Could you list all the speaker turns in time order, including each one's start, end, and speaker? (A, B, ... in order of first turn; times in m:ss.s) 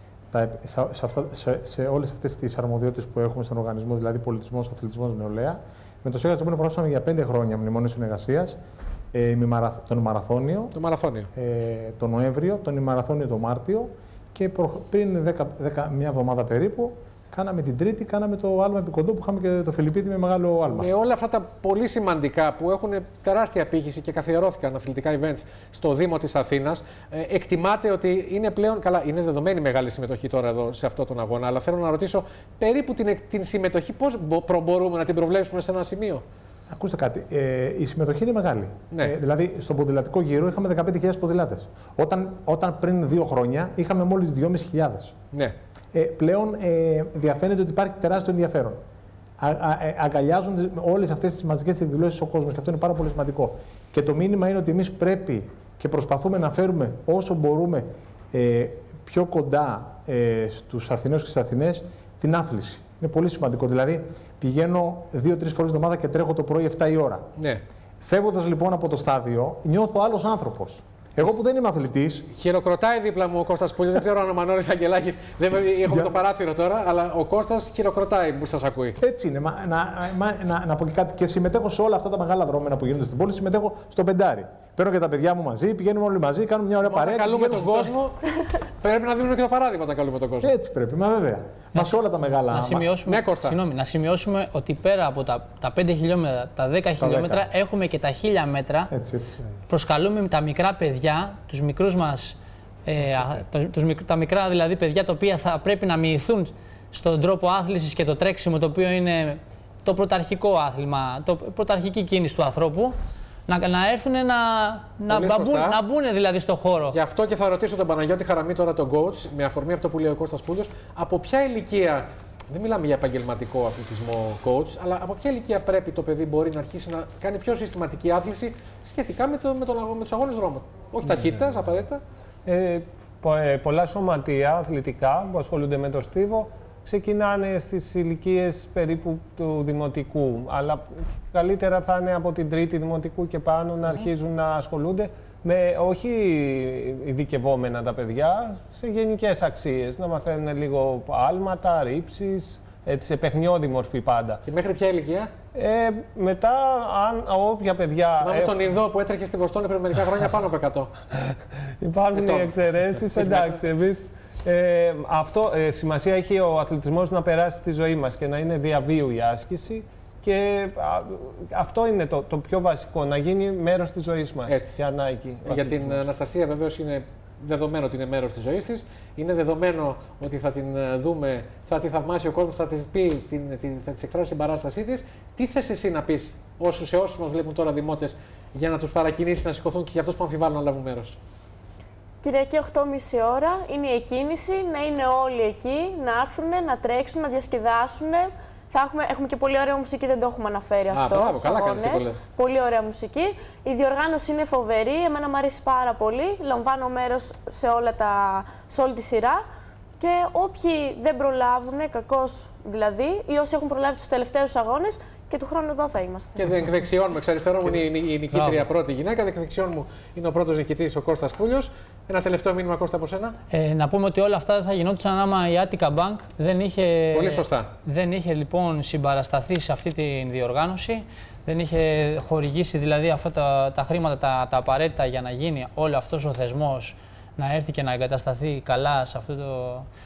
0:00.3-0:08.6 A
0:09.1-0:10.8 A
0:10.7-0:11.3 B
0:11.3-0:20.9 A
0:20.7-0:36.2 B
0:36.7-0:45.2 A
0:45.9-0:48.8 A
0:49.4-1:07.2 A
1:07.4-1:07.6 B
1:08.0-1:12.3 A
1:12.3-1:19.0 B
1:15.9-1:16.1 A
1:19.0-1:27.9 A
1:26.8-1:28.2 B
1:28.8-1:30.5 B
1:30.4-1:32.9 A
1:31.7-1:38.9 C
1:33.1-1:33.6 B
1:37.0-1:37.5 A
1:38.9-1:39.4 A
1:39.7-1:52.9 C
1:53.5-1:57.0 C
1:55.1-1:55.8 B
1:56.9-2:12.0 B
2:12.5-2:34.4 D
2:34.4-2:35.3 B
2:35.6-2:38.6 D
2:38.2-2:40.9 B
2:41.8-2:56.1 D
2:42.1-2:42.5 B
2:43.2-2:43.6 B
2:54.5-2:54.8 B
2:55.4-3:11.2 B
3:12.2-3:29.4 E
3:20.9-3:22.2 B
3:30.0-3:36.6 E
3:36.4-3:43.4 B
3:38.3-3:38.6 C
3:43.5-3:59.9 C
3:47.1-3:47.7 B